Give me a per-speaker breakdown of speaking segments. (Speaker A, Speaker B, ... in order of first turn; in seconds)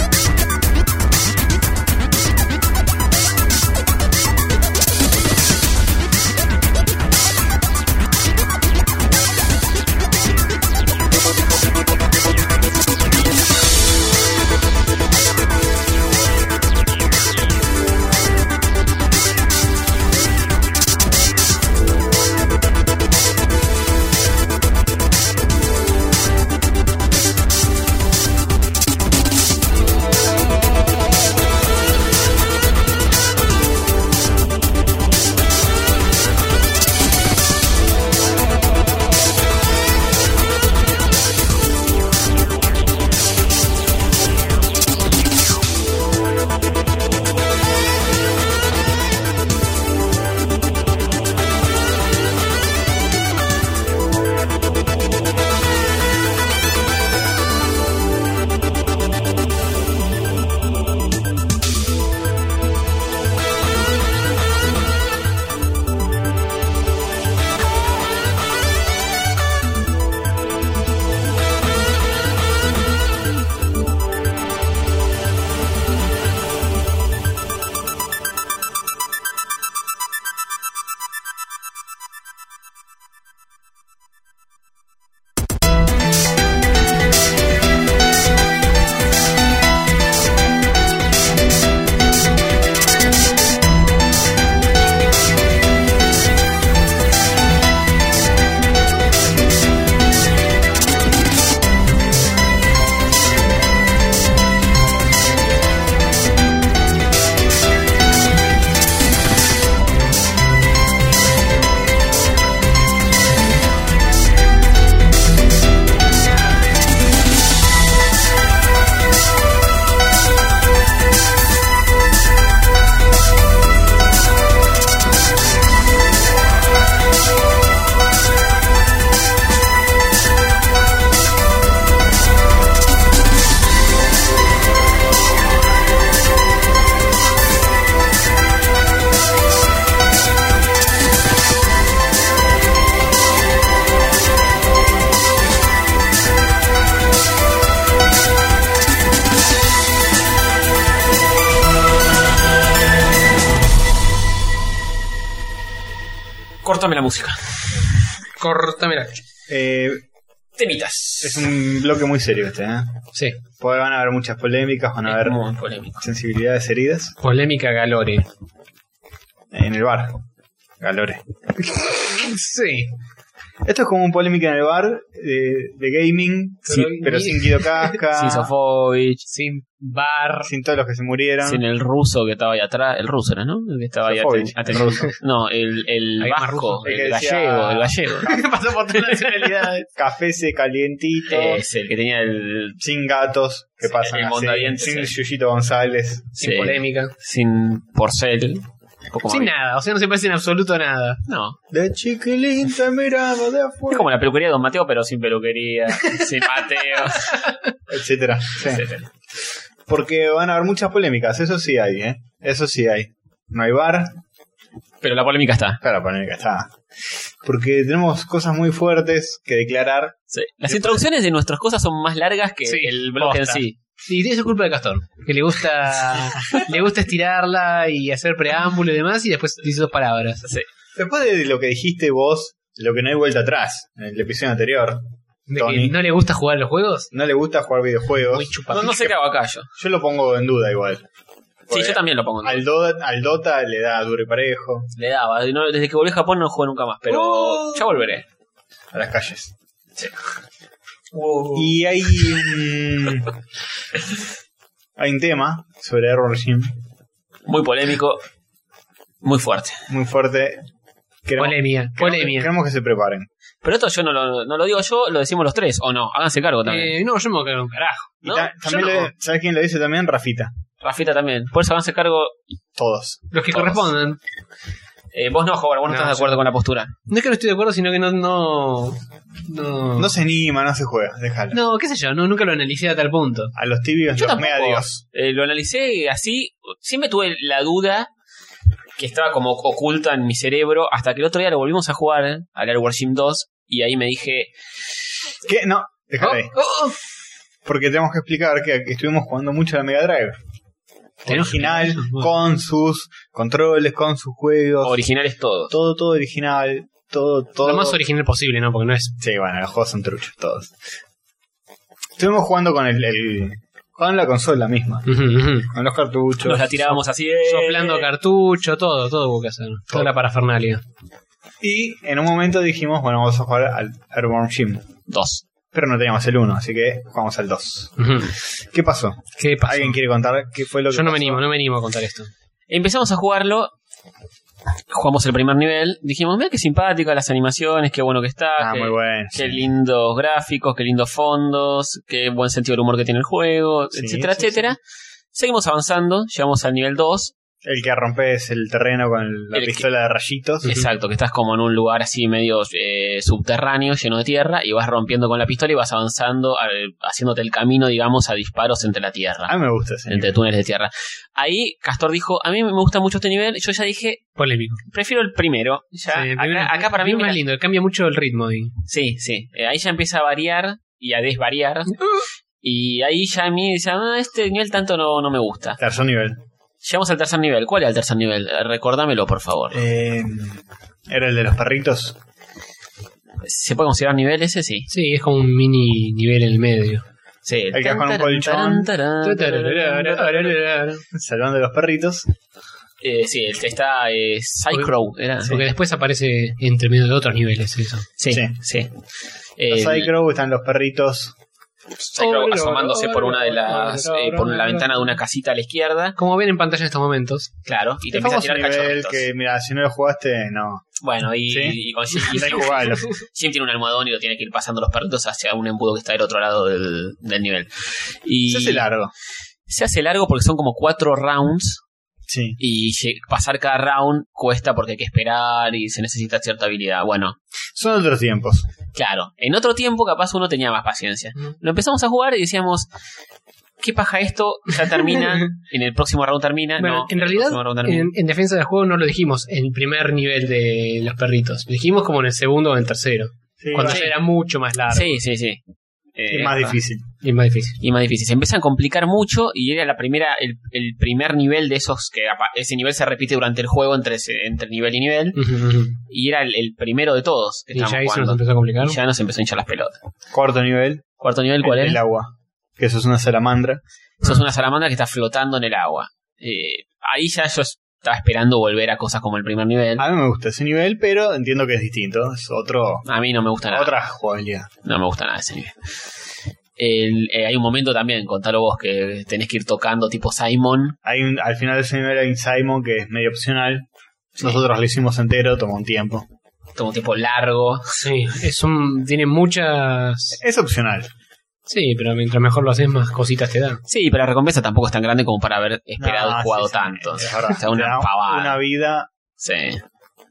Speaker A: 156.6-157.8, 160.6-161.5, 165.0-166.0, 178.1-179.2, 181.4-188.4, 191.3-192.8, 193.9-195.1, 196.4-199.5, 201.3-201.6, 203.9-207.5, 208.6-209.1, 215.0-215.8, 220.3-223.8, 238.7-239.7, 241.7-242.6, 245.0-248.2, 251.1-252.3, 257.5-258.2, 259.2-259.9, 263.6-267.0, 268.2-269.1, 270.8-272.4, 273.5-273.8, 275.1-276.9, 284.2-288.1, 289.0-294.5, 304.8-305.7, 316.4-318.1, 325.1-325.4, 332.7-333.7, 334.9-344.8, 345.3-347.4, 349.5-349.9, 350.6-359.6, 360.1-364.2, 364.9-367.4, 368.9-372.1, 372.6-375.8, 376.8-379.8, 383.4-384.9, 387.4-390.6, 393.0-395.6, 398.2-398.9, 399.6-400.1, 402.0-406.2, 407.7-409.3, 411.0-418.8, 419.7-421.8, 422.6-427.4, 428.9-432.9, 433.8-438.1, 443.8-444.1, 444.9-445.6, 446.2-446.8, 447.8-455.5, 456.1-460.0, 461.2-462.0, 464.2-470.1, 473.1-473.9, 474.8-475.8, 476.8-481.0, 486.8-488.1, 493.9-498.6, 499.4-499.8
Speaker B: 158.4-159.2, 163.1-163.4, 167.2-168.3, 171.9-172.9, 176.7-178.0, 179.3-180.5, 186.2-187.0, 188.2-189.9, 196.4-197.1, 199.3-201.2, 207.3-207.6, 222.7-230.5, 235.5-237.1, 238.2-239.1, 247.2-247.8, 261.4-262.5, 266.7-268.1, 273.3-274.2, 275.9-276.4, 277.1-280.1, 281.5-283.5, 296.2-296.9, 301.3-302.3, 307.6-309.2, 315.1-315.7, 317.5-320.8, 328.0-328.3, 329.4-330.0, 330.9-332.3, 364.4-364.8, 366.1-368.8, 384.9-387.0, 389.2-391.0, 395.4-398.1, 402.2-405.1, 406.2-407.5, 435.0-435.5, 436.8-445.2, 447.2-447.8, 455.4-456.0, 457.7-459.0, 488.0-490.4, 491.7-493.8
Speaker C: 159.5-160.0, 161.2-165.4, 166.0-167.2, 169.5-170.3, 170.8-171.2, 173.7-178.5, 180.4-181.6, 184.1-185.1, 186.8-188.4, 189.9-191.6, 192.8-196.4, 201.7-204.1, 207.9-208.9, 209.9-214.2, 215.8-216.8, 217.4-221.1, 231.0-235.0, 235.6-236.0, 237.1-239.1, 239.8-241.1, 241.7-244.9, 248.9-249.5, 251.5-253.3, 255.0-256.7, 259.9-260.7, 261.2-263.3, 268.2-270.5, 272.8-273.3, 280.0-281.6, 283.6-285.0, 295.4-296.6, 297.6-300.4, 301.2-305.0, 305.7-308.0, 309.2-310.7, 312.2-315.1, 315.6-316.9, 321.6-324.9, 325.7-328.0, 328.7-331.4, 338.6-339.6, 343.9-344.7, 347.6-350.8, 359.5-360.4, 375.8-376.4, 379.7-382.2, 387.7-388.9, 391.1-392.3, 398.3-398.6, 399.7-401.4, 408.1-410.9, 411.5-413.1, 418.5-419.1, 422.3-422.6, 427.8-428.7, 443.6-444.1, 446.3-447.1, 460.3-461.1, 461.6-464.4, 470.0-473.1, 473.7-474.7, 481.1-486.3, 490.4-491.1, 496.0-499.1